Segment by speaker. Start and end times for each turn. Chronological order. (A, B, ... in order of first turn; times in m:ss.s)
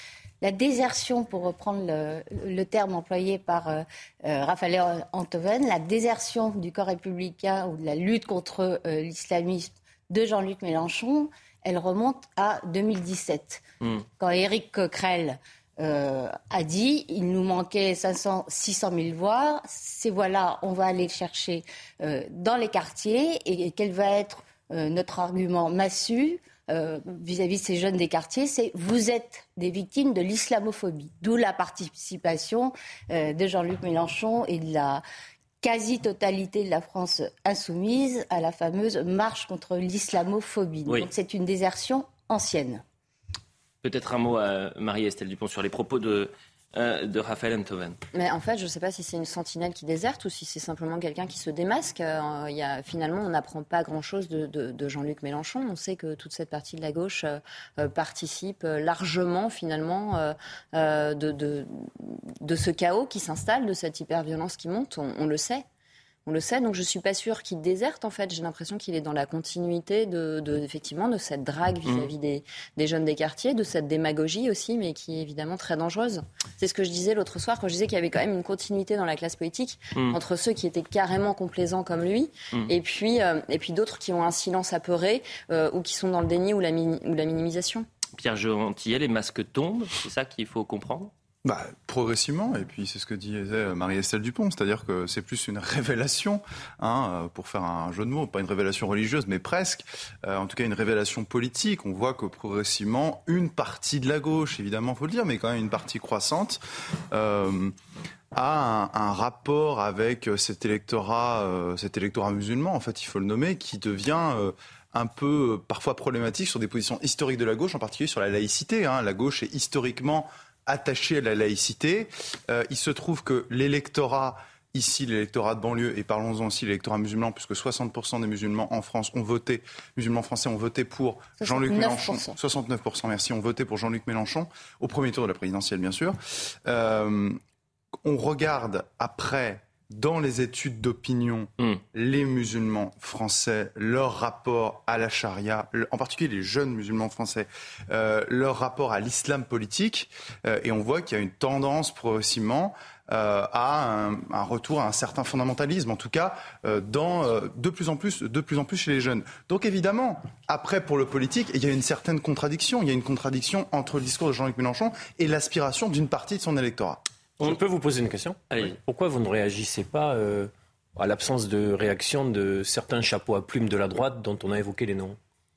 0:00.4-0:13.6 A
0:14.2-0:35.0 A
0:35.6-0:42.8 A
0:43.8-0:48.0 B
0:48.1-1:05.6 C
1:06.2-1:27.8 C
1:11.8-1:12.1 B
1:28.2-1:31.1 B
1:31.4-1:47.7 D
1:48.3-2:17.4 D
2:11.4-2:12.4 A
2:18.0-2:47.0 D
2:47.4-2:55.2 E
2:48.5-2:48.8 B